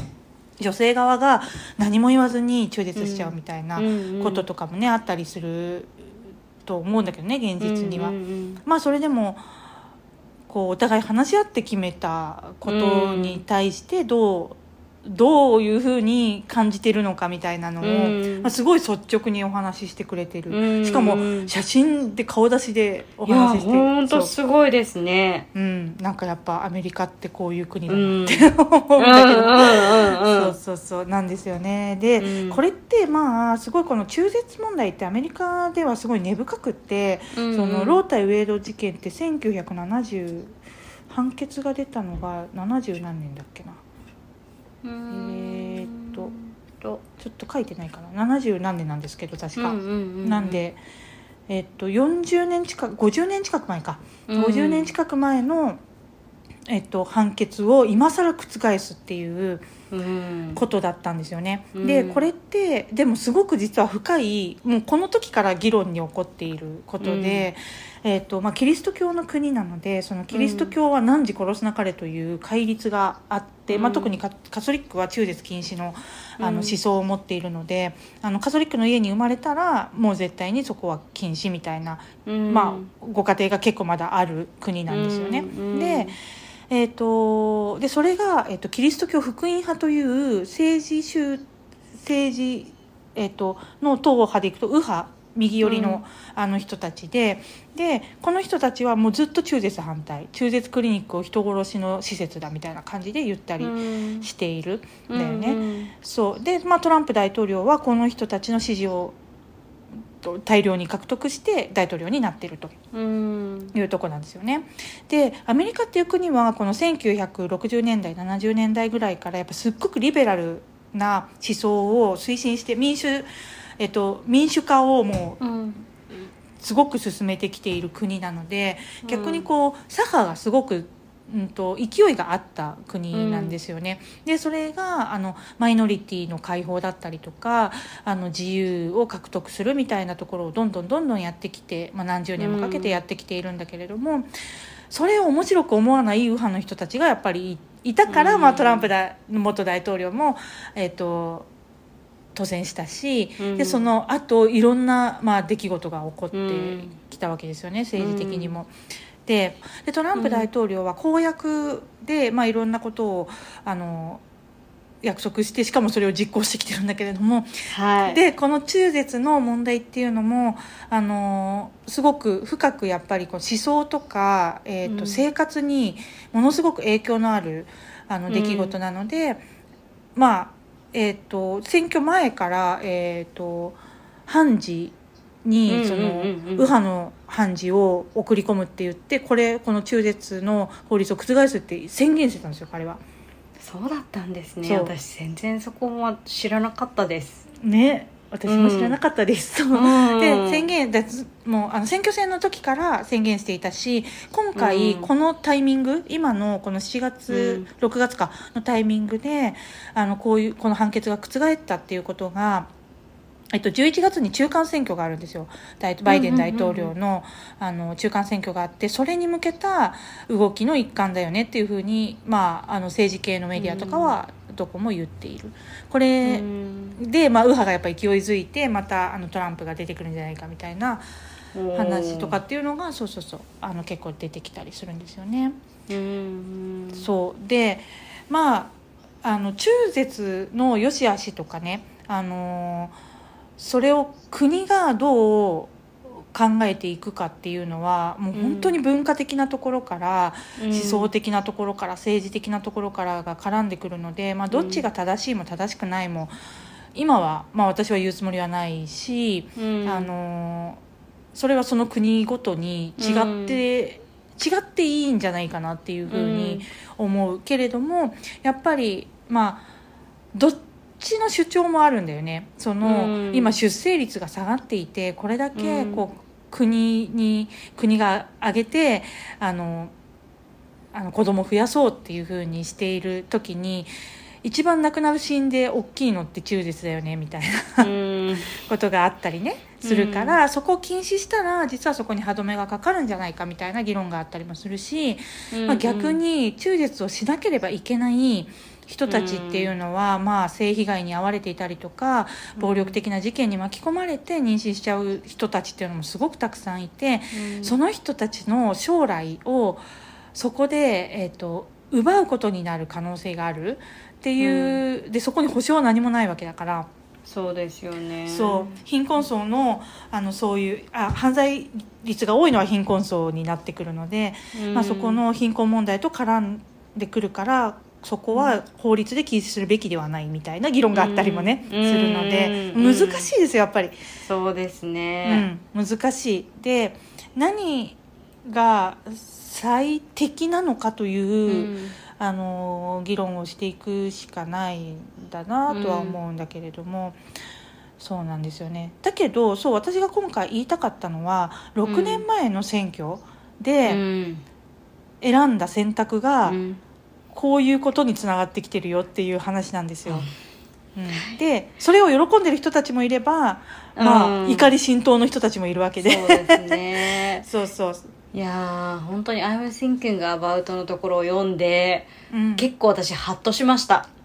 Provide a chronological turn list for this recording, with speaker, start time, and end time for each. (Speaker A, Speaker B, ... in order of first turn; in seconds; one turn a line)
Speaker A: 0.6-6.1
Speaker B: 3.0-4.5
Speaker A: 6.7-9.4
Speaker B: 7.6-8.6
Speaker A: 10.5-24.3
Speaker B: 12.7-13.4
Speaker B: 17.8-18.5
Speaker B: 20.5-21.5
Speaker B: 23.3-25.5
Speaker A: 25.5-40.6
Speaker B: 27.9-30.6
Speaker B: 32.2-32.6
Speaker B: 37.4-38.0
Speaker A: 41.1-43.8
Speaker B: 44.8-47.0
Speaker A: 45.1-46.3
Speaker A: 47.2-50.8
Speaker B: 49.6-50.6
Speaker A: 51.5-55.8
Speaker B: 54.3-54.9
Speaker A: 56.7-59.7
Speaker B: 59.9-60.6
Speaker A: 60.5-86.1
Speaker B: 61.8-62.3
Speaker B: 67.0-67.5
Speaker B: 70.3-70.7
Speaker B: 73.7-74.2
Speaker B: 76.4-76.8
Speaker B: 82.2-82.9
Speaker B: 84.9-86.2
Speaker A: 86.7-109.2
Speaker B: 95.6-96.0
Speaker B: 103.6-104.3
Speaker B: 105.1-105.9
Speaker A: 110.2-112.7
Speaker B: 112.9-113.7
Speaker A: 113.7-125.4
Speaker B: 125.4-125.8
Speaker A: 126.6-144.3
Speaker B: 129.0-129.5
Speaker B: 133.1-133.6
Speaker B: 142.4-143.0
Speaker A: 144.9-151.5
Speaker B: 148.1-148.9
Speaker A: 152.3-158.7
Speaker B: 153.4-153.8
Speaker B: 156.3-157.0
Speaker B: 158.0-158.5
Speaker A: 159.3-164.2
Speaker B: 160.2-160.5
Speaker A: 165.0-167.5
Speaker B: 167.7-168.2
Speaker A: 168.1-179.4
Speaker B: 174.8-175.2
Speaker B: 178.3-178.8
Speaker A: 180.2-193.0
Speaker B: 185.7-186.7
Speaker B: 193.6-197.4
Speaker A: 194.7-194.9
Speaker A: 197.6-212.7
Speaker B: 198.5-199.0
Speaker B: 199.7-200.7
Speaker B: 204.6-205.1
Speaker B: 207.3-207.7
Speaker A: 213.5-226.5
Speaker B: 216.1-216.9
Speaker B: 223.6-224.2
Speaker B: 226.2-227.0
Speaker A: 227.0-231.1
Speaker B: 231.6-232.4
Speaker A: 231.8-235.6
Speaker B: 235.9-237.1
Speaker A: 236.9-242.9
Speaker A: 243.6-256.4
Speaker B: 248.3-248.8
Speaker B: 250.6-251.1
Speaker B: 254.5-254.8
Speaker A: 256.9-260.8
Speaker B: 259.6-260.1
Speaker A: 261.3-269.6
Speaker B: 263.0-263.6
Speaker B: 266.1-266.7
Speaker A: 270.3-279.9
Speaker B: 272.8-273.6
Speaker B: 275.6-276.1
Speaker A: 280.9-283.9
Speaker A: 284.4-287.9
Speaker B: 287.8-288.6
Speaker A: 288.6-309.8
Speaker B: 289.8-290.4
Speaker B: 295.5-296.2
Speaker B: 299.1-299.7
Speaker B: 302.6-303.0
Speaker B: 307.3-307.8
Speaker A: 310.4-316.9
Speaker B: 314.4-314.8
Speaker B: 317.3-318.8
Speaker A: 318.3-334.0
Speaker B: 324.5-325.2
Speaker B: 330.9-333.3
Speaker B: 334.2-335.5
Speaker A: 335.2-347.2
Speaker B: 341.5-342.0
Speaker B: 345.7-346.2
Speaker A: 348.0-354.0
Speaker B: 351.9-352.3
Speaker B: 353.9-354.4
Speaker A: 355.2-356.6
Speaker B: 356.5-356.8
Speaker A: 357.3-360.3
Speaker A: 360.9-366.8
Speaker B: 361.1-361.4
Speaker B: 364.0-364.7
Speaker B: 366.0-367.5
Speaker A: 367.4-368.1
Speaker B: 368.3-374.1
Speaker A: 372.3-372.7